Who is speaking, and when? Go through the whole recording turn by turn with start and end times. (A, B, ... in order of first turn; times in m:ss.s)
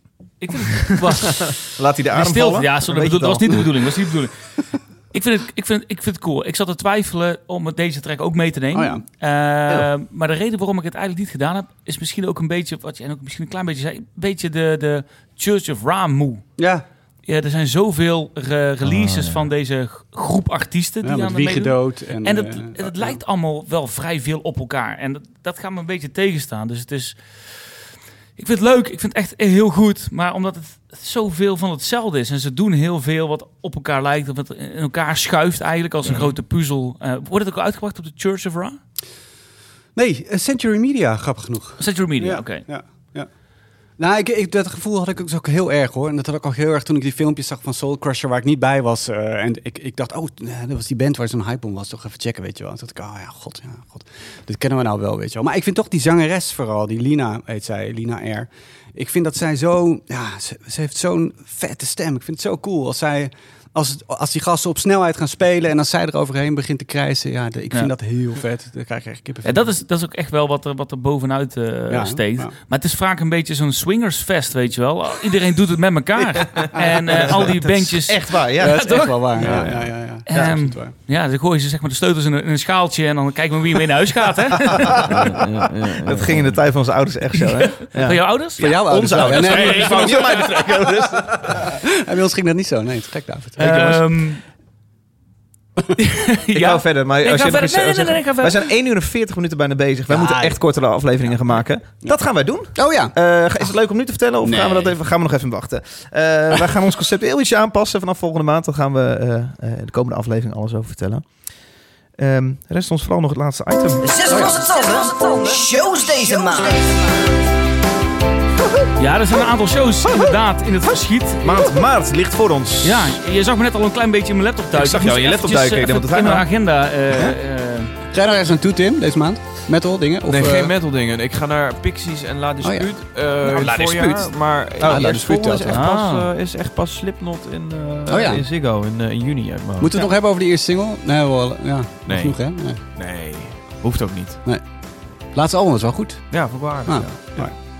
0:00.4-0:04.5 A
0:00.7-0:03.8 B
0:05.1-0:16.4 A
0:08.7-0:09.0 C
0:16.6-0:16.8 C
0:17.2-0:27.8 A
0:18.8-0:19.5 D
0:21.0-0:23.2 C
0:28.4-0:38.8 A
0:39.9-0:43.3 C
0:41.8-0:42.6 A
0:44.0-1:09.6 C
1:09.4-1:19.1 A
1:11.9-1:12.5 C
1:17.1-1:19.6 B
1:18.6-1:20.9 C
1:19.4-1:19.9 D
1:20.3-1:25.1 A
1:25.0-1:26.6 D
1:26.0-1:31.7 B
1:27.5-1:31.2 A
1:28.6-1:30.4 C
1:31.6-1:34.1 C
1:33.6-1:34.4 A
1:36.0-1:38.7 A
1:36.5-1:51.3 B
1:40.1-1:40.6 C
1:42.7-1:43.7 C
1:44.4-1:45.0 C
1:52.2-1:54.2 B
1:54.1-1:57.2 E
1:54.3-1:54.6 C
1:59.0-2:01.7 A
2:01.4-2:03.2 B
2:02.8-2:07.9 A
2:04.7-2:06.5 B
2:08.1-2:10.7 C
2:10.3-2:20.0 D
2:12.6-2:12.9 C
2:13.5-2:15.2 B
2:14.8-2:15.7 C
2:15.7-2:16.3 A
2:18.1-2:18.5 C
2:19.8-2:22.8 C
2:22.1-2:24.4 D
2:25.3-2:27.5 C
2:26.3-2:27.5 D